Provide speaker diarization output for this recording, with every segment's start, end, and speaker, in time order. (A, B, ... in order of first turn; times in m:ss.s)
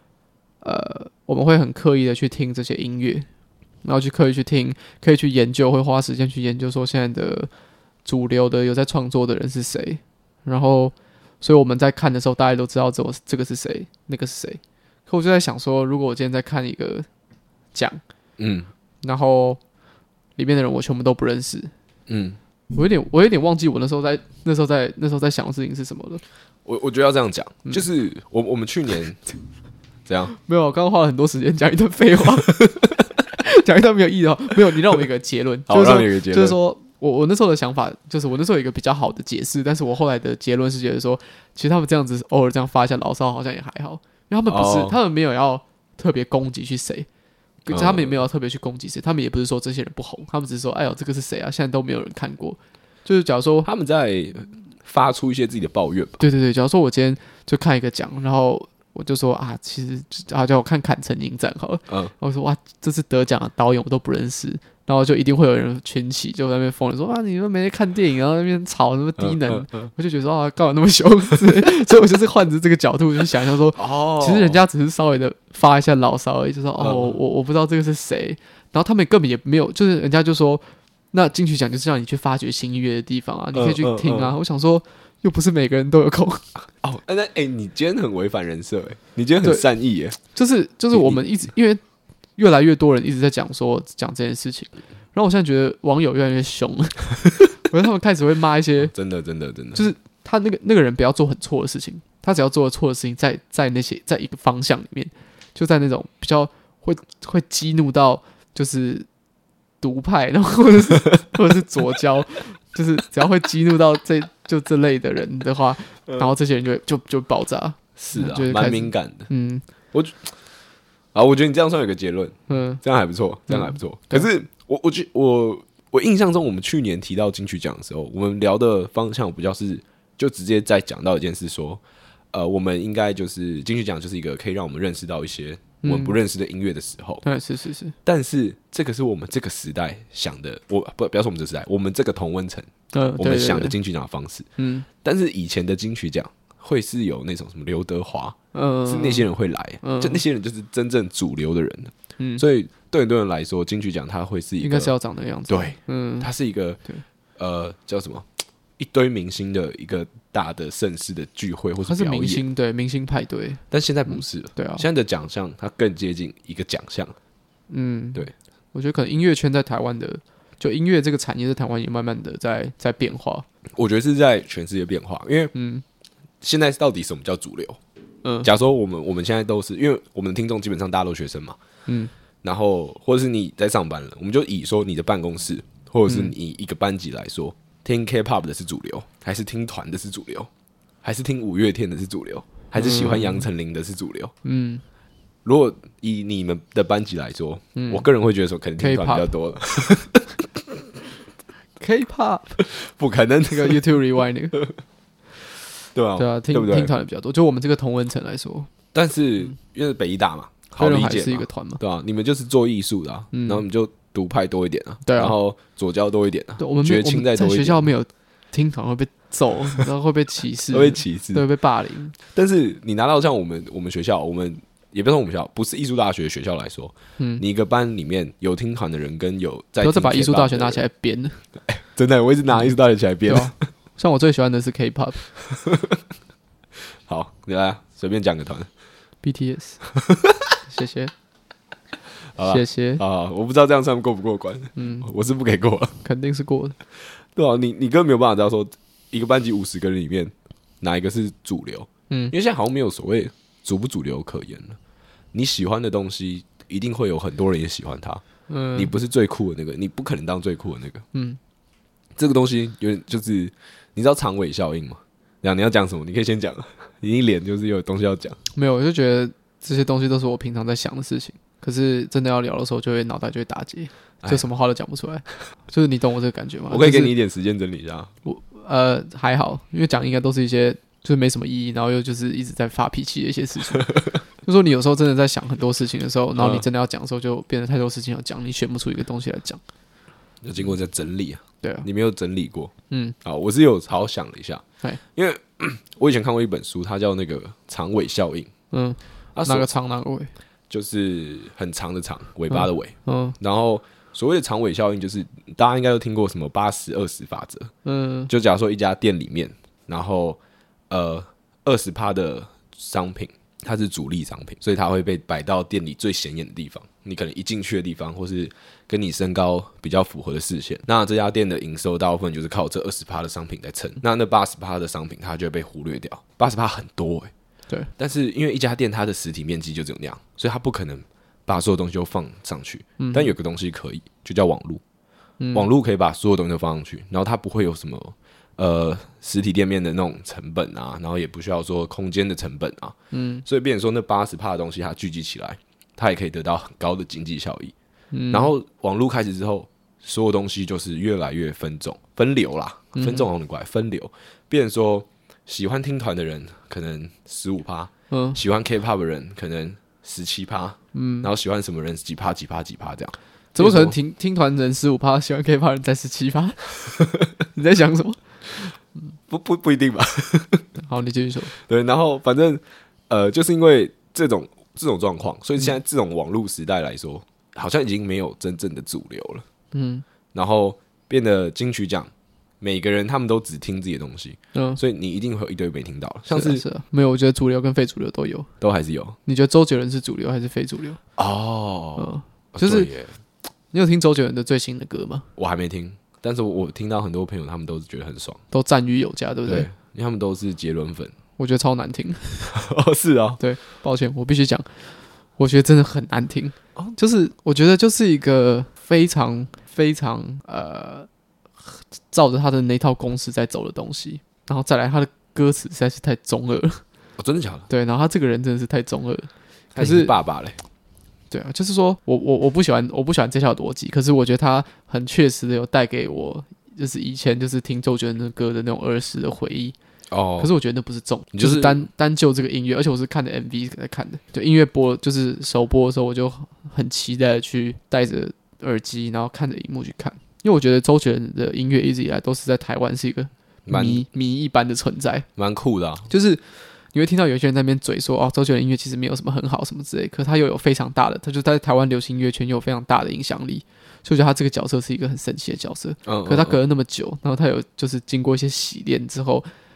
0:00.6-0:03.3 A
0:03.8-0:07.5 A
0:08.0-0:17.1 A
0:17.7-0:18.0 A
0:18.4-0:18.7 B
0:19.0-0:19.6 A
0:20.4-0:21.7 A
0:22.1-0:22.4 B
0:22.7-0:26.2 A
0:26.6-0:29.2 B
0:30.1-0:30.3 B
0:30.3-0:32.6 A
0:32.6-0:32.9 B
0:33.4-0:47.1 A
0:35.7-0:36.6 B
0:44.5-0:45.0 B
0:47.6-0:53.7 A
0:47.7-0:48.2 B
0:53.6-0:56.2 B
0:56.2-1:26.5 A
1:09.2-1:09.9 B
1:13.8-1:14.6 B
1:16.8-1:17.2 B
1:23.5-1:24.4 B
1:26.8-1:30.2 B
1:30.2-1:31.8 A
1:30.9-1:31.2 B
1:32.4-1:38.9 A
1:38.8-1:39.9 B
1:39.7-1:49.1 A
1:49.8-1:59.6 A
1:58.0-1:59.3 B
1:59.9-2:00.4 B
2:01.1-2:17.2 B
2:02.5-2:02.8 A
2:03.5-2:04.3 A
2:15.8-2:16.2 A
2:17.2-2:18.0 A
2:18.0-2:24.5 B
2:22.9-2:23.8 A
2:24.6-2:24.9 A
2:25.0-2:34.9 B
2:28.5-2:29.3 A
2:29.8-2:30.2 A
2:32.2-2:32.4 A
2:34.6-2:36.3 A
2:35.5-2:36.8 B
2:37.4-2:42.4 B
2:41.8-2:44.8 A
2:43.7-2:47.2 B
2:47.7-2:53.4 A
2:53.8-2:55.5 B
2:55.5-2:55.8 A
2:56.4-2:57.8 B
2:58.4-3:01.6 B
3:01.9-3:02.1 A
3:02.4-3:10.5 B
3:06.1-3:06.3 A
3:11.0-3:14.3 B
3:12.8-3:13.5 A
3:14.4-3:14.8 A
3:15.4-3:20.7 B
3:17.8-3:18.1 A
3:18.8-3:19.3 A
3:21.8-3:22.6 A
3:22.6-3:23.8 B
3:23.5-3:24.6 A
3:25.9-3:26.9 B
3:26.2-3:28.7 A
3:28.9-3:37.9 B
3:30.8-3:31.8 A
3:33.3-3:33.6 A
3:35.1-3:35.4 A
3:36.6-3:42.2 A
3:40.7-3:41.5 B
3:42.2-3:50.8 B
3:49.8-3:51.4 A
3:51.6-3:53.6 B
3:53.3-3:55.3 A
3:55.5-3:56.0 B
3:57.1-3:58.7 B
3:59.2-3:59.8 A
3:59.9-4:00.6 B
4:00.7-4:01.1 A
4:02.4-4:06.0 B
4:02.4-4:03.0 A
4:04.8-4:05.1 A
4:06.0-4:06.8 A
4:07.3-4:14.8 B
4:15.3-4:18.2 B
4:18.5-4:18.9 A
4:18.8-4:21.1 B
4:21.1-4:21.4 A
4:22.2-4:28.4 B
4:28.6-4:37.1 A
4:36.7-4:38.1 B
4:38.2-4:49.6 A
4:43.7-4:44.0 B
4:46.4-4:46.7 B
4:50.4-4:52.7 B
4:51.6-4:51.9 A
4:52.9-4:53.2 A
4:53.2-4:54.6 B
4:55.2-4:58.5 B
4:58.7-5:00.3 A
4:59.4-4:59.7 B
5:00.7-5:07.7 B
5:02.5-5:03.4 A
5:07.8-5:08.3 A
5:08.3-5:27.3 B
5:28.0-5:34.8 B
5:33.0-5:33.3 A
5:35.4-5:35.7 A
5:35.5-5:47.7 B
5:43.1-5:43.4 A
5:48.1-5:48.5 A
5:48.3-6:04.0 B
5:53.0-5:53.3 A
5:58.1-5:58.4 A
6:00.9-6:01.3 A
6:03.6-6:06.7 A
6:07.5-6:08.7 A
6:09.3-6:10.7 B
6:10.8-6:11.5 A
6:11.5-6:19.4 B
6:19.7-6:20.0 A
6:20.3-6:26.6 B
6:24.6-6:24.8 A
6:26.3-6:28.5 A
6:28.6-6:29.2 B
6:29.3-6:31.0 A
6:31.2-6:33.2 B
6:32.0-6:32.9 A
6:33.7-6:35.3 A
6:35.4-6:38.4 B
6:38.5-6:39.7 A
6:39.5-6:41.2 B
6:41.4-6:42.5 A
6:42.5-6:43.4 B
6:43.4-6:44.8 A
6:45.4-6:51.1 A
6:51.7-6:56.8 A
6:57.2-6:57.7 B
6:57.7-7:00.2 A
6:59.7-7:00.6 B
7:01.3-7:09.8 A
7:10.1-7:10.5 B
7:10.4-7:25.3 A
7:11.3-7:11.8 B
7:23.7-7:24.1 B
7:25.4-7:26.1 B
7:26.1-7:26.4 A
7:26.9-7:39.5 A
7:36.0-7:36.6 B